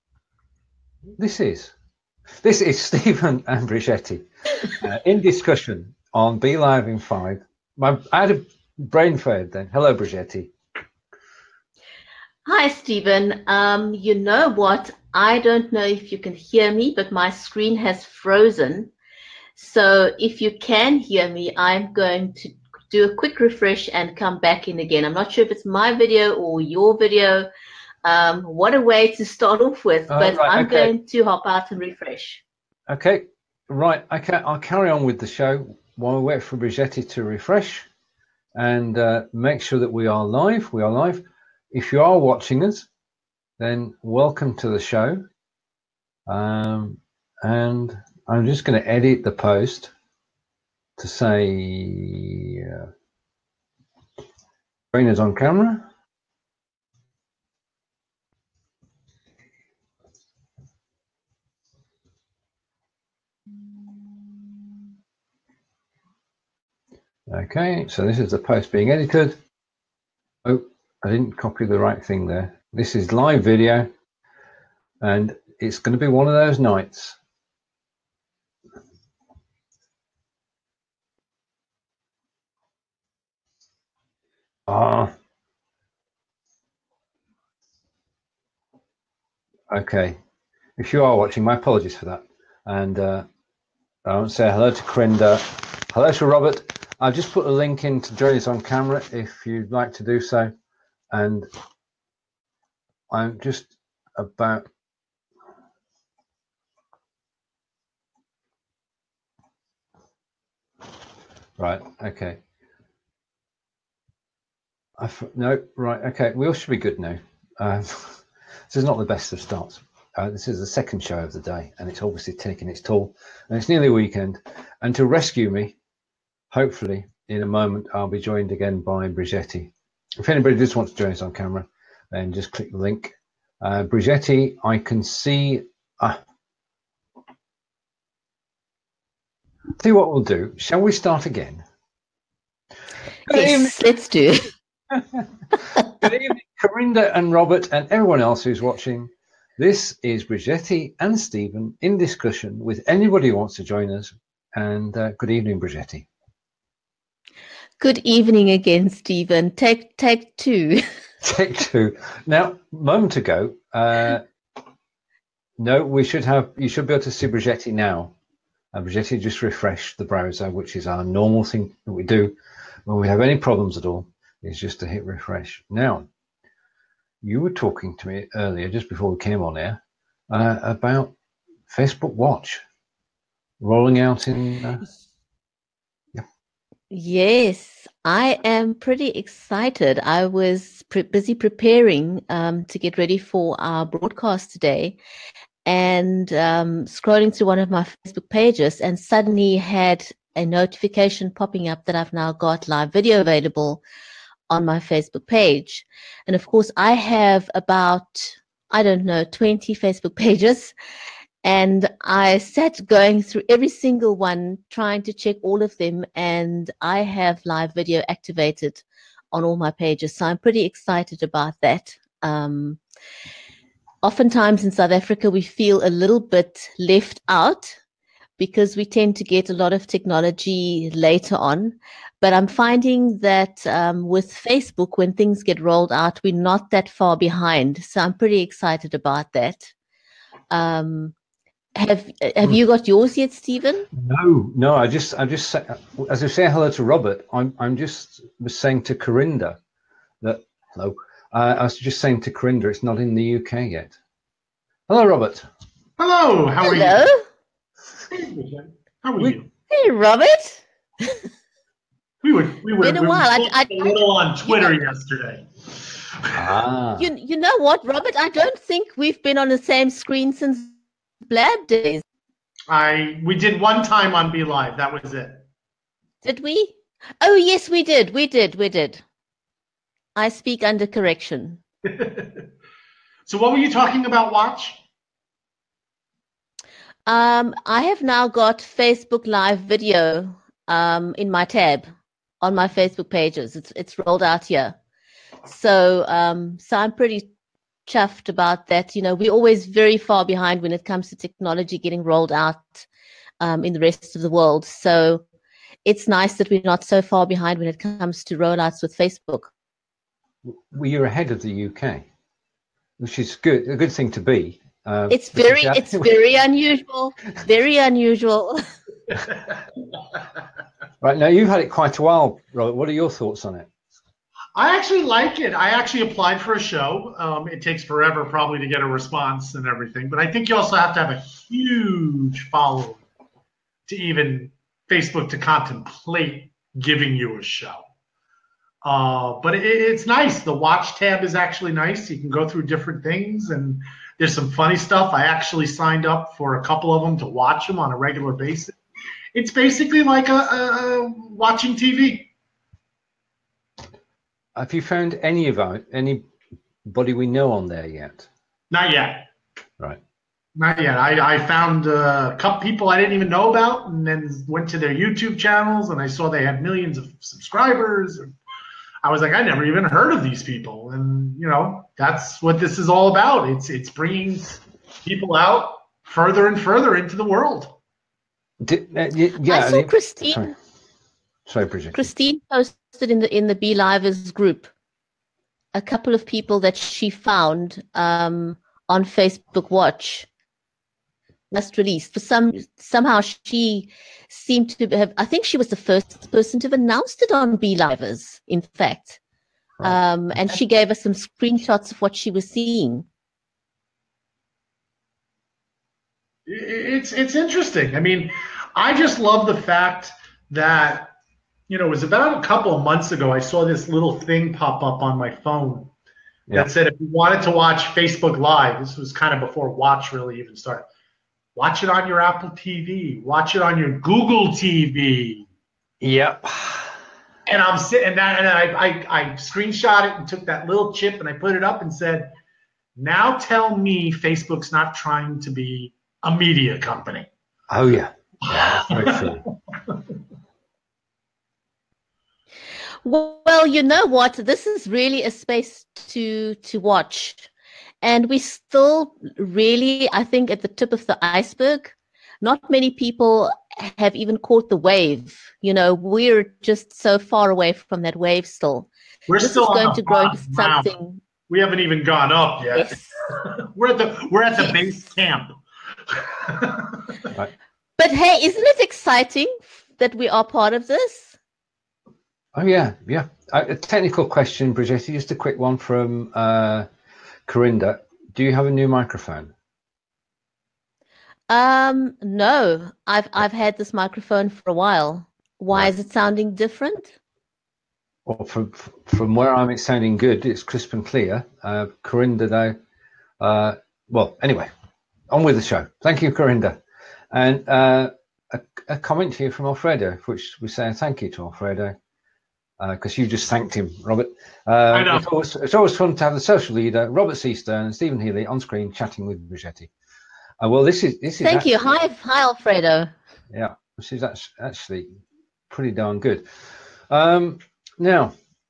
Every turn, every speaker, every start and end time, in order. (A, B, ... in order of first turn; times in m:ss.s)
0:01.2-0:01.7 A
0:02.4-0:10.5 A
0:12.4-0:18.9 B
0:19.6-0:27.5 B
0:28.0-0:32.4 B
0:30.1-0:30.9 A
0:32.9-0:37.9 A
0:38.6-0:42.9 A
0:43.6-0:45.2 A
0:46.3-0:49.9 A
0:51.0-0:52.9 A
0:54.9-0:55.9 A
1:07.3-1:09.4 A
1:10.4-1:13.9 A
1:15.0-1:17.2 A
1:24.7-1:25.1 A
1:29.7-1:30.2 A
1:30.8-1:33.3 A
1:34.0-1:40.5 A
1:41.1-1:41.5 A
1:43.1-1:44.7 A
1:51.6-1:52.4 A
1:55.0-2:05.8 A
2:06.5-2:16.2 A
2:19.8-2:21.6 A
2:23.3-2:23.7 A
2:23.3-2:24.5 B
2:24.9-2:36.1 A
2:37.8-2:40.8 B
2:41.2-2:44.2 A
2:45.6-2:48.1 A
2:48.7-2:52.3 A
2:52.9-2:56.1 A
2:57.2-3:01.1 A
3:01.7-3:02.6 A
3:03.6-3:04.9 A
3:06.9-3:15.0 B
3:15.6-3:23.8 B
3:24.5-3:30.7 B
3:31.4-3:42.8 B
3:44.0-3:47.8 B
3:48.4-3:59.7 B
4:00.5-4:01.1 B
4:01.8-4:03.9 B
4:03.9-4:09.6 A
4:10.2-4:14.0 A
4:14.9-4:15.5 A
4:16.0-4:17.1 C
4:16.6-4:17.2 B
4:18.1-4:19.5 C
4:19.7-4:21.2 B
4:22.2-4:26.5 C
4:22.8-4:24.8 B
4:26.4-4:27.1 A
4:27.0-4:30.7 B
4:31.3-4:32.0 B
4:32.7-4:35.4 C
4:36.2-4:39.0 B
4:40.2-4:41.6 B
4:41.8-4:42.5 C
4:43.3-4:44.8 C
4:47.1-4:51.9 B
4:52.4-4:54.8 B
4:55.4-4:57.3 B
4:57.9-5:02.9 B
5:03.4-5:05.2 B
5:05.8-5:09.5 B
5:10.5-5:12.0 A
5:13.0-5:16.1 A
5:15.1-5:18.7 B
5:21.0-5:23.7 A
5:24.6-5:33.0 C
5:33.9-5:37.8 C
5:38.8-5:48.8 C
5:49.3-5:52.3 C
5:54.6-5:56.2 A
5:56.9-5:58.3 A
5:58.7-5:59.3 C
6:00.6-6:08.3 C
6:09.0-6:17.8 C
6:18.6-6:20.5 A
6:19.4-6:20.5 B
6:21.5-6:22.1 A
6:21.9-6:24.7 B
6:25.7-6:30.3 B
6:31.5-6:39.2 B
6:39.8-6:43.1 B
6:46.5-6:51.1 C
6:51.7-6:55.9 C
6:56.5-7:00.8 C
7:01.6-7:05.5 C
7:06.0-7:06.9 A
7:07.5-7:12.3 C
7:13.0-7:17.3 C
7:17.7-7:19.4 A
7:18.5-7:19.4 C
7:23.0-7:27.5 B
7:28.0-7:38.9 B
7:39.3-7:40.9 C
7:39.4-7:41.2 B
7:41.5-7:45.6 C
7:42.7-7:43.2 B
7:46.1-7:47.1 C
7:48.0-7:51.4 B
7:52.6-7:56.9 A
7:57.5-7:59.5 A
8:01.5-8:07.1 B
8:08.3-8:12.8 A
8:13.4-8:14.7 A
8:15.3-8:16.8 A
8:17.3-8:22.0 A
8:22.8-8:29.9 A
8:24.9-8:25.3 C
8:30.6-8:31.7 A
8:31.4-8:33.1 B
8:33.5-8:35.1 A
8:35.7-8:36.4 A
8:37.1-8:38.3 A